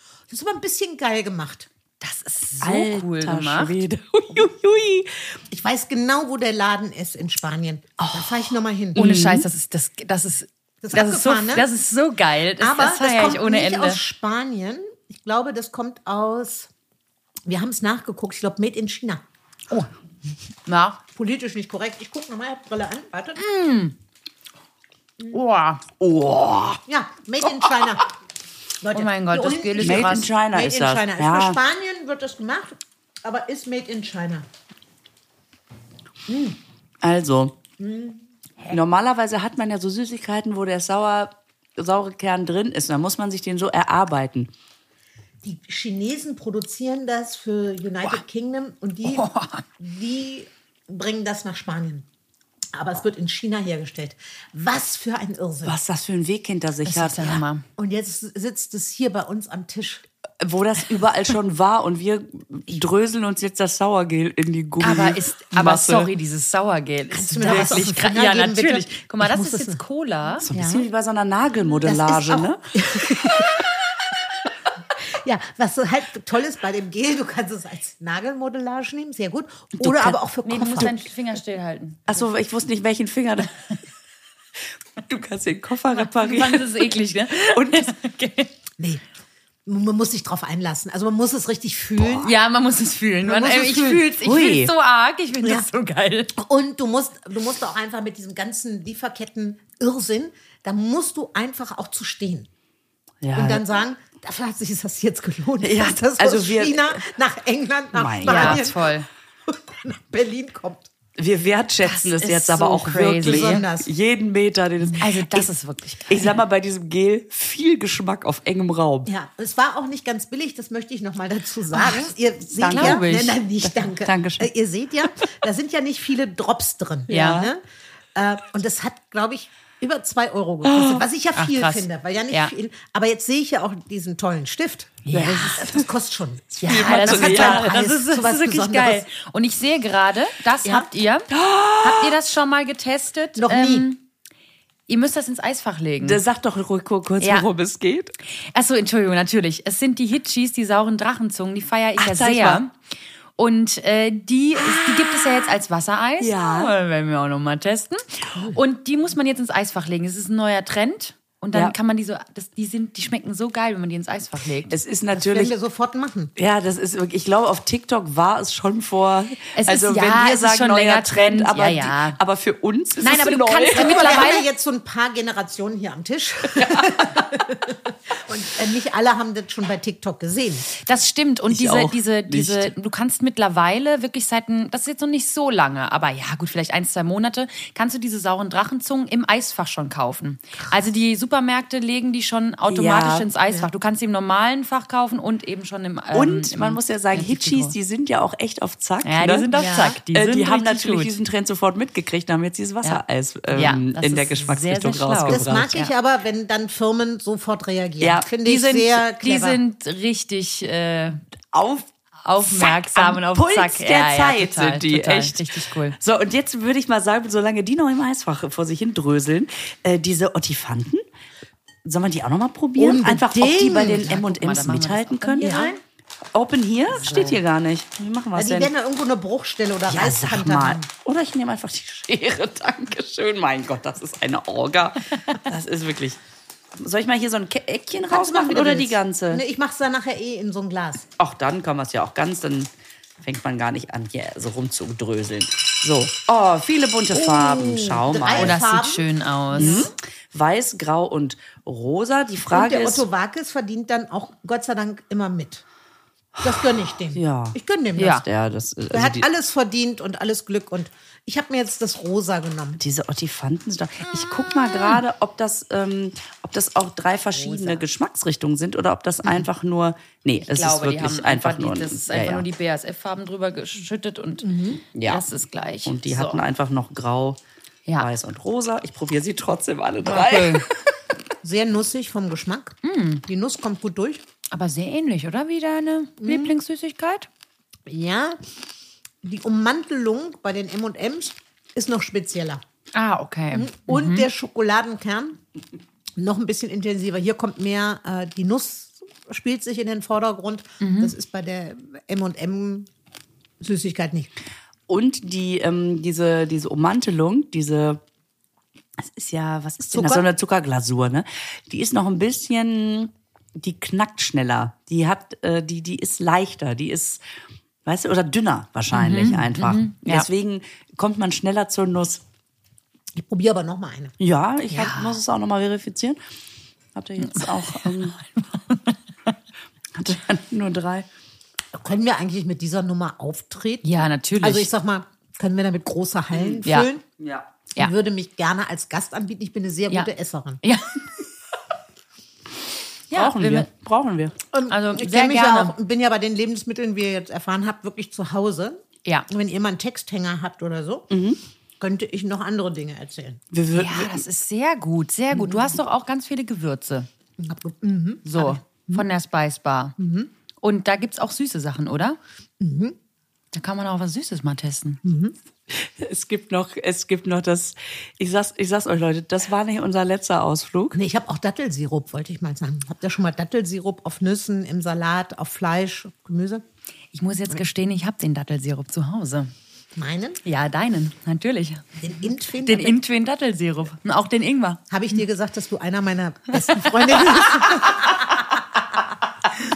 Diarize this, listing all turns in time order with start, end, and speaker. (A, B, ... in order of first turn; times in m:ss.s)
0:00.3-0:01.7 A
0:02.0-0:03.8 B
0:02.6-0:05.4 C
0:05.5-0:09.0 A
0:08.0-0:09.5 C
0:09.0-0:14.0 B
0:10.8-0:11.7 A
0:12.6-0:16.7 A
0:17.4-0:19.8 A
0:20.7-0:21.0 B
0:21.1-0:23.4 A
0:23.4-0:24.0 B
0:25.3-0:25.8 B
0:26.0-0:26.8 C
0:26.9-0:28.0 A
0:27.4-0:28.0 C
0:28.8-0:34.5 A
0:28.9-0:30.3 B
0:29.8-0:31.6 C
0:36.3-0:36.6 A
0:37.0-0:37.6 C
0:37.8-0:38.2 A
0:38.7-0:44.5 C
0:45.4-0:52.0 A
0:49.1-0:49.7 B
0:52.7-0:55.8 A
0:55.7-0:57.4 C
0:56.8-0:57.6 B
0:57.8-1:00.1 A
1:00.4-1:06.1 C
1:04.8-1:10.8 B
1:07.1-1:09.8 A
1:07.4-1:07.8 C
1:10.4-1:13.4 C
1:11.8-1:13.7 A
1:15.1-1:21.0 A
1:19.8-1:20.2 C
1:20.4-1:22.1 B
1:22.1-1:23.6 C
1:25.0-1:27.9 C
1:25.9-1:28.5 B
1:29.7-1:32.3 A
1:32.0-1:32.3 C
1:32.2-1:36.3 B
1:33.2-1:34.1 A
1:34.2-1:34.7 C
1:36.4-1:42.5 A
1:43.2-1:43.7 C
1:43.4-1:49.0 A
1:45.6-1:47.1 C
1:47.9-1:48.7 C
1:48.2-1:49.1 B
1:49.4-1:50.9 A
1:51.2-1:55.5 C
1:51.8-1:53.6 B
1:53.2-1:53.9 A
1:54.9-1:56.4 B
1:56.1-1:59.1 C
1:59.0-2:07.6 A
2:01.7-2:02.1 B
2:02.6-2:03.1 C
2:02.6-2:03.4 B
2:03.6-2:04.5 C
2:07.1-2:07.5 B
2:07.1-2:07.5 C
2:08.1-2:19.0 A
2:10.6-2:11.0 C
2:11.4-2:12.5 B
2:15.0-2:15.8 B
2:15.1-2:15.8 C
2:16.5-2:17.7 C
2:16.6-2:21.3 B
2:21.3-2:22.2 C
2:21.8-2:24.0 B
2:23.4-2:23.9 A
2:24.9-2:26.2 B
2:26.0-2:28.1 C
2:27.2-2:27.4 B
2:28.4-2:32.7 B
2:32.0-2:32.6 C
2:33.4-2:44.7 B
2:34.6-2:35.6 C
2:36.2-2:36.7 C
2:44.7-2:45.5 C
2:45.1-2:46.3 A
2:46.4-2:54.3 C
2:49.6-2:52.2 B
2:53.0-2:54.4 B
2:53.7-3:00.7 A
2:56.6-2:57.0 C
3:00.7-3:17.7 B
3:01.5-3:02.7 C
3:12.7-3:13.3 C
3:16.1-3:19.6 C
3:19.0-3:21.1 B
3:19.5-3:20.0 A
3:20.1-3:25.7 C
3:22.8-3:25.9 B
3:25.3-3:29.6 A
3:28.0-3:28.3 C
3:28.4-3:31.2 B
3:31.5-3:31.9 C
3:32.2-3:36.0 B
3:32.4-3:41.0 C
3:41.8-3:45.7 C
3:42.8-3:44.1 A
3:44.0-3:45.7 B
3:45.4-3:45.8 A
3:46.3-3:48.7 C
3:47.0-3:47.4 B
3:48.4-3:50.9 A
3:49.9-3:56.2 C
3:56.8-3:59.4 C
3:58.1-4:01.1 A
4:01.2-4:02.7 C
4:03.2-4:08.6 C
4:07.1-4:09.9 A
4:08.4-4:09.9 B
4:09.6-4:13.0 C
4:12.5-4:15.6 A
4:16.4-4:19.3 C
4:16.4-4:18.2 A
4:18.0-4:18.2 B
4:18.9-4:22.8 A
4:22.8-4:32.4 C
4:27.4-4:27.8 B
4:30.4-4:36.4 B
4:34.4-4:34.8 A
4:35.0-4:35.2 C
4:35.8-4:37.4 C
4:38.0-4:40.8 C
4:40.0-4:40.7 B
4:41.4-4:44.2 A
4:42.8-4:43.2 B
4:44.5-4:47.3 B
4:46.2-4:46.6 A
4:47.9-4:48.4 A
4:49.2-4:52.6 A
4:52.9-4:54.3 B
4:53.5-4:55.4 A
4:56.2-5:02.9 A
5:00.8-5:01.1 B
5:03.6-5:04.3 A
5:04.9-5:08.0 C
5:09.0-5:17.2 C
5:09.9-5:10.2 A
5:17.8-5:22.2 C
5:18.9-5:20.3 B
5:23.1-5:24.1 A
5:24.2-5:26.2 C
5:24.7-5:25.2 B
5:27.0-5:28.2 C
5:27.2-5:29.3 B
5:30.0-5:31.1 C
5:31.7-5:33.9 A
5:33.8-5:34.7 B
5:34.4-5:37.0 A
5:37.2-5:37.5 C
5:37.8-5:40.6 A
5:40.6-5:41.1 B
5:43.1-5:43.7 B
5:43.1-5:44.4 C
5:44.5-5:51.1 A
5:44.7-5:45.7 B
5:51.1-5:51.4 C
5:51.8-5:53.4 A
5:53.5-5:54.2 C
5:53.7-5:57.1 B
5:55.3-5:55.7 A
5:57.4-5:59.0 A
5:58.2-6:00.0 B
6:00.0-6:00.3 A
6:00.6-6:02.2 B
6:02.6-6:03.0 A
6:03.5-6:05.0 B
6:05.0-6:05.4 A
6:05.7-6:11.0 C
6:10.9-6:16.6 A
6:17.1-6:19.5 B
6:20.0-6:20.4 A
6:20.4-6:21.9 B
6:22.0-6:23.0 A
6:22.6-6:24.8 B
6:24.9-6:28.4 A
6:26.7-6:27.6 B